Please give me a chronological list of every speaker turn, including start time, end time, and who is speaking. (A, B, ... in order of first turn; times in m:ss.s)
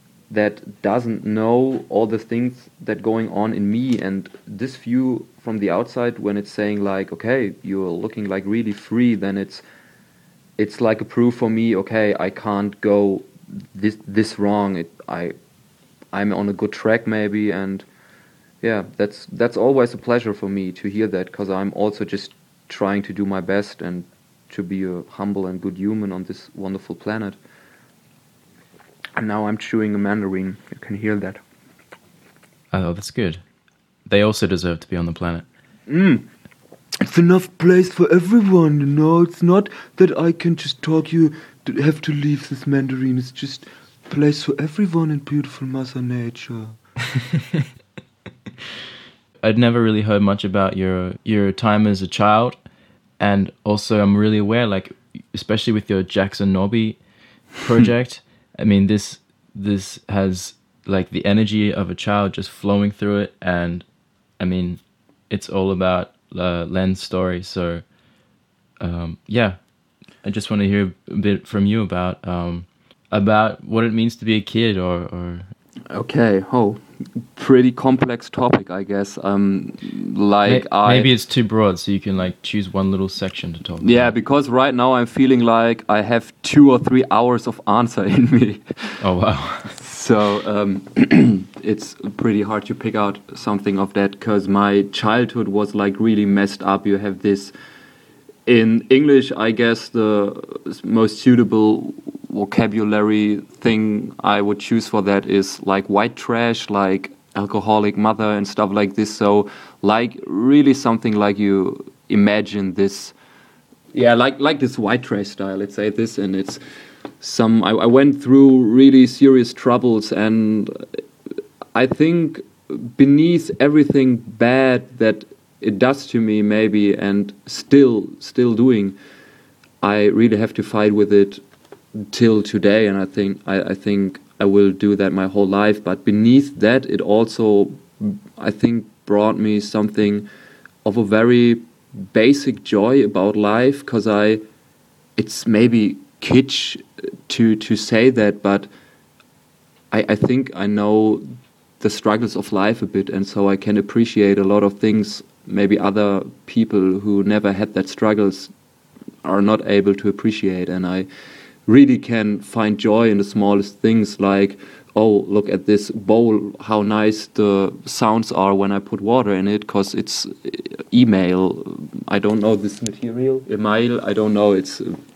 0:00.3-0:09.6 A
0:10.6-0:15.3 A
0:16.1-0:17.8 A
0:18.6-0:27.4 A
0:29.2-0:31.4 A
0:32.7-0:33.4 B
0:34.1-0:35.4 B
0:35.9-0:36.3 A
0:37.0-0:46.8 A
0:49.4-0:52.6 B
0:53.2-0:57.0 B
0:57.6-1:03.8 B
1:04.4-1:07.8 B
1:08.8-1:09.6 B
1:10.2-1:15.5 B
1:15.9-1:16.8 A
1:17.3-1:21.1 A
1:20.4-1:24.1 B
1:23.8-1:28.9 A
1:29.0-1:29.8 B
1:29.8-1:37.5 A
1:38.4-1:53.1 A
1:53.9-1:56.6 A
1:57.2-2:00.8 A
2:01.7-2:09.0 A
2:09.8-2:11.4 A
2:12.0-2:20.3 A
2:20.8-2:24.4 A
2:25.2-2:28.7 A
2:29.9-2:31.3 A
2:31.8-2:38.5 A
2:39.2-2:41.1 A
2:41.6-2:54.9 A